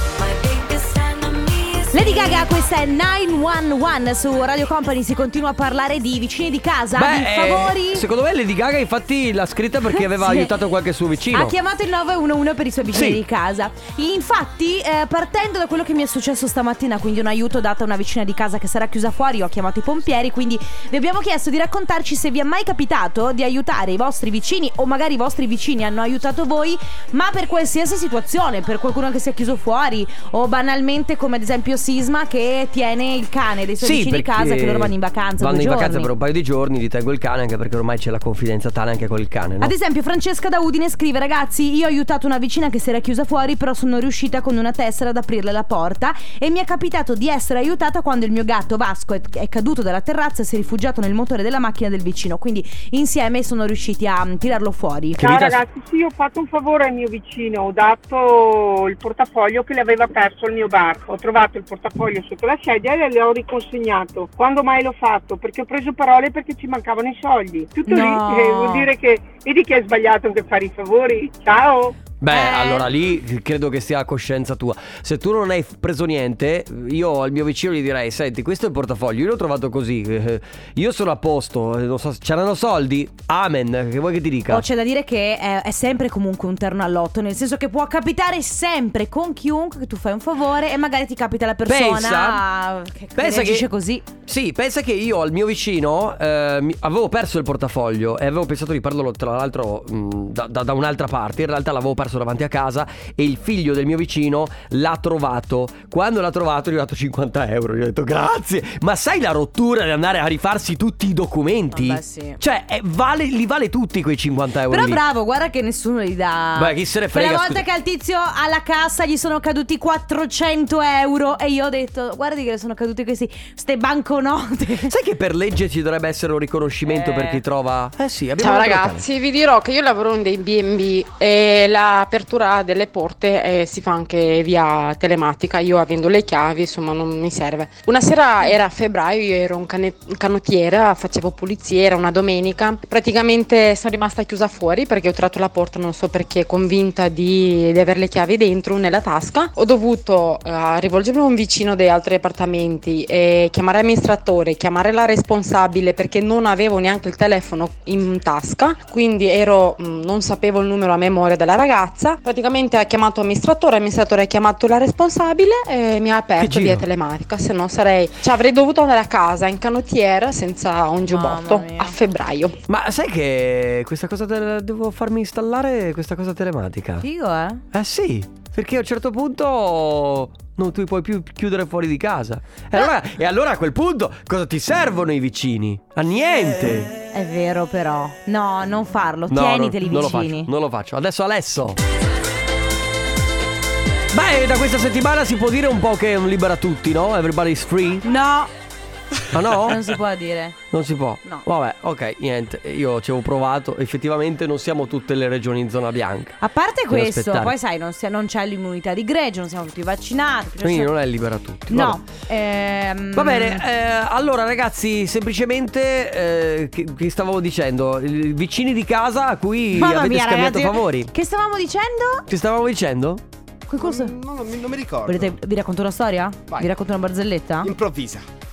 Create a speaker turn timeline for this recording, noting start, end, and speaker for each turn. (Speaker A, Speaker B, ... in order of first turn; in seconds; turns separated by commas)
Speaker A: 0.4-2.1, Speaker B: 1.9-8.1, Speaker A: 7.0-11.5, Speaker B: 9.9-10.5, Speaker B: 11.3-36.1, Speaker A: 12.9-13.2, Speaker A: 33.8-39.7, Speaker B: 39.6-55.2, Speaker C: 55.2-72.0, Speaker A: 55.2-55.6, Speaker B: 67.9-68.9, Speaker A: 72.2-84.7, Speaker B: 72.3-72.9, Speaker B: 84.5-94.1, Speaker A: 91.7-92.4, Speaker A: 93.2-93.7, Speaker A: 94.2-115.0, Speaker B: 111.7-112.4, Speaker B: 114.7-124.9, Speaker A: 116.6-117.7, Speaker A: 124.9-129.1, Speaker B: 126.9-127.4, Speaker D: 128.4-172.6, Speaker A: 166.4-166.9, Speaker B: 171.1-171.9, Speaker A: 172.7-177.1, Speaker B: 177.0-177.6, Speaker A: 177.7-186.9, Speaker B: 187.1-190.5, Speaker A: 189.3-191.8, Speaker A: 194.1-198.1, Speaker B: 198.1-198.5, Speaker A: 199.3-199.9, Speaker B: 199.7-200.6, Speaker A: 200.7-206.4, Speaker B: 206.4-210.9, Speaker A: 206.9-207.6, Speaker A: 210.6-212.0, Speaker B: 211.7-213.6, Speaker A: 213.2-221.1, Speaker B: 219.8-222.3, Speaker A: 222.3-223.2, Speaker B: 223.7-224.2, Speaker E: 223.8-225.3, Speaker B: 225.1-227.7, Speaker E: 227.6-228.2